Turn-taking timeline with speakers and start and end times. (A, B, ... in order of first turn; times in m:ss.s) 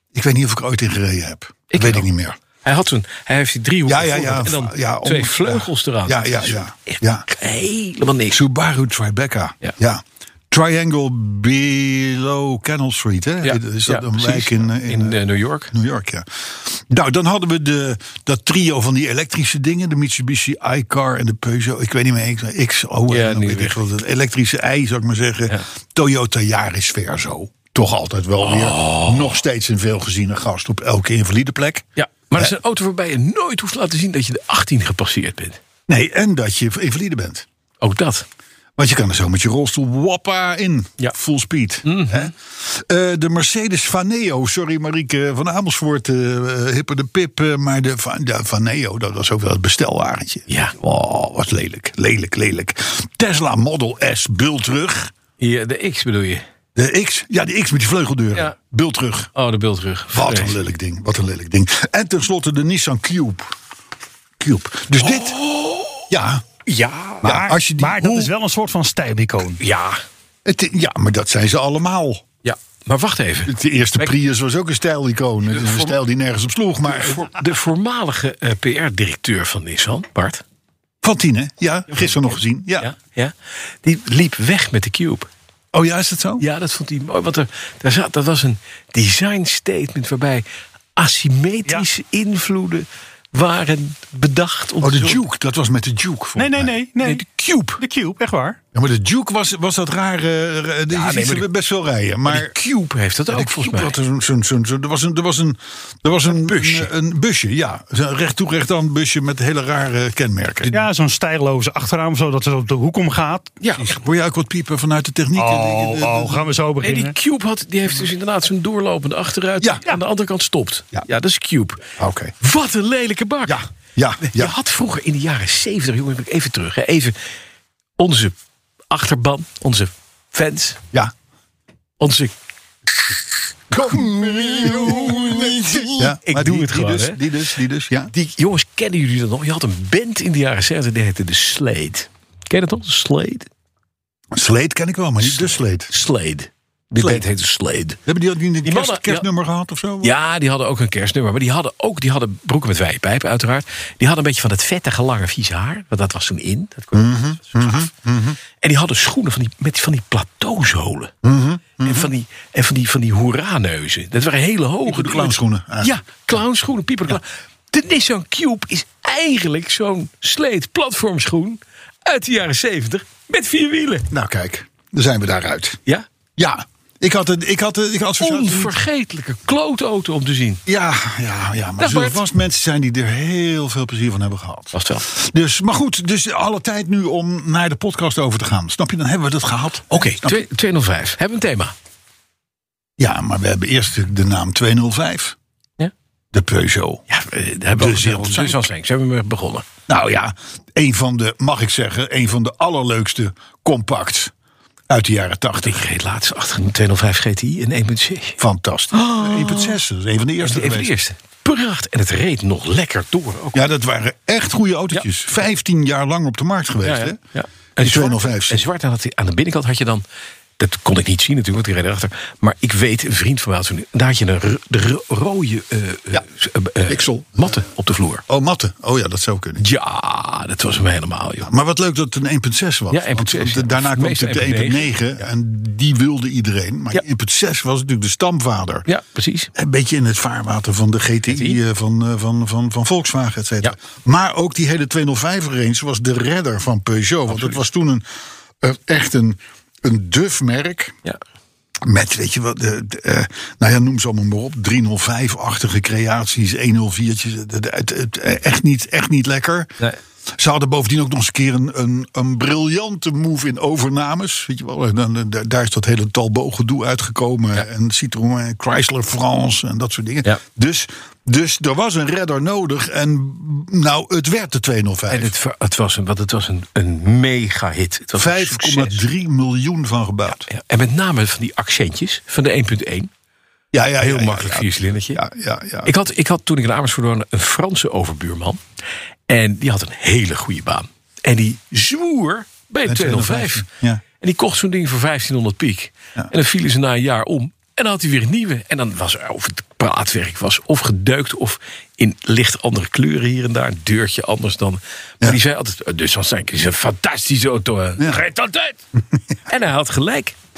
0:00.1-0:02.4 A
0:01.7-0:02.1 B
0:02.6-0:08.4 B
0:03.8-0:07.2 A
0:08.3-0:15.2 A
0:13.4-0:15.7 B
0:15.7-0:31.8 A
0:23.1-0:23.8 B
0:28.4-0:29.4 B
0:32.0-0:35.6 B
0:35.9-0:37.4 A
0:37.8-0:38.2 B
0:38.8-0:55.1 A
0:41.8-0:42.3 B
0:50.5-0:50.8 B
0:55.4-0:56.4 B
0:56.7-0:59.3 A
0:59.3-1:00.6 B
1:00.1-1:03.5 A
1:04.4-1:05.4 A
1:05.0-1:06.1 B
1:06.1-1:06.4 A
1:06.6-1:07.3 B
1:07.2-1:08.3 A
1:07.2-1:09.6 C
1:09.6-1:10.0 B
1:10.4-1:12.2 A
1:12.4-1:14.1 B
1:13.5-1:17.4 A
1:15.5-1:16.0 B
1:16.9-1:20.4 B
1:21.0-1:22.9 A
1:21.9-1:25.3 B
1:25.7-1:26.4 A
1:26.4-1:30.4 B
1:31.0-1:35.2 B
1:34.8-1:36.8 A
1:36.4-1:37.2 C
1:37.0-1:37.8 B
1:37.8-1:38.6 C
1:38.7-1:42.6 A
1:40.9-1:41.5 B
1:42.2-1:44.0 B
1:43.3-1:50.8 A
1:46.3-1:46.9 B
1:50.7-1:53.8 C
1:53.8-1:56.5 A
1:55.3-1:57.1 C
1:56.8-2:01.8 B
2:02.0-2:02.3 A
2:02.4-2:03.6 B
2:03.4-2:04.5 A
2:04.2-2:07.2 B
2:08.0-2:08.3 B
2:08.9-2:10.8 B
2:12.0-2:12.3 B
2:13.7-2:18.1 A
2:14.0-2:15.8 C
2:14.6-2:15.2 B
2:15.8-2:17.2 B
2:18.1-2:23.5 B
2:24.3-2:25.9 A
2:25.2-2:28.0 B
2:27.0-2:27.2 A
2:28.0-2:30.1 A
2:28.6-2:29.3 B
2:30.0-2:37.9 B
2:36.9-2:38.4 A
2:38.6-2:41.1 B
2:41.2-2:42.1 A
2:41.8-2:54.1 B
2:44.8-2:46.0 A
2:54.1-2:55.8 A
2:56.4-2:58.8 A
2:58.2-3:00.6 B
3:00.6-3:10.4 A
3:01.8-3:02.2 B
3:04.7-3:05.1 B
3:09.9-3:11.7 B
3:13.0-3:15.4 A
3:16.3-3:17.0 A
3:17.1-3:19.7 B
3:17.7-3:18.7 A
3:19.9-3:24.3 A
3:24.9-3:25.8 A
3:25.6-3:28.4 B
3:28.4-3:30.9 A
3:28.9-3:29.8 B
3:30.4-3:33.6 B
3:33.5-3:37.2 A
3:36.8-3:40.0 B
3:37.8-3:38.6 A
3:40.6-3:48.2 B
3:46.9-3:47.7 A
3:48.3-3:49.6 A
3:49.6-3:51.5 B
3:51.4-3:58.9 A
3:52.9-3:55.2 B
3:58.9-3:59.5 B
3:59.5-4:08.0 A
4:01.3-4:01.6 B
4:07.3-4:07.6 B
4:08.6-4:11.0 A
4:11.8-4:19.7 A
4:20.3-4:35.3 A
4:35.1-4:39.0 B
4:38.1-4:40.4 A
4:40.3-4:43.1 B
4:43.7-4:45.9 A
4:44.0-4:45.2 B
4:45.8-4:48.6 B
4:49.3-4:53.7 B
4:52.8-4:54.0 A
4:54.2-5:08.8 B
5:09.4-5:10.4 B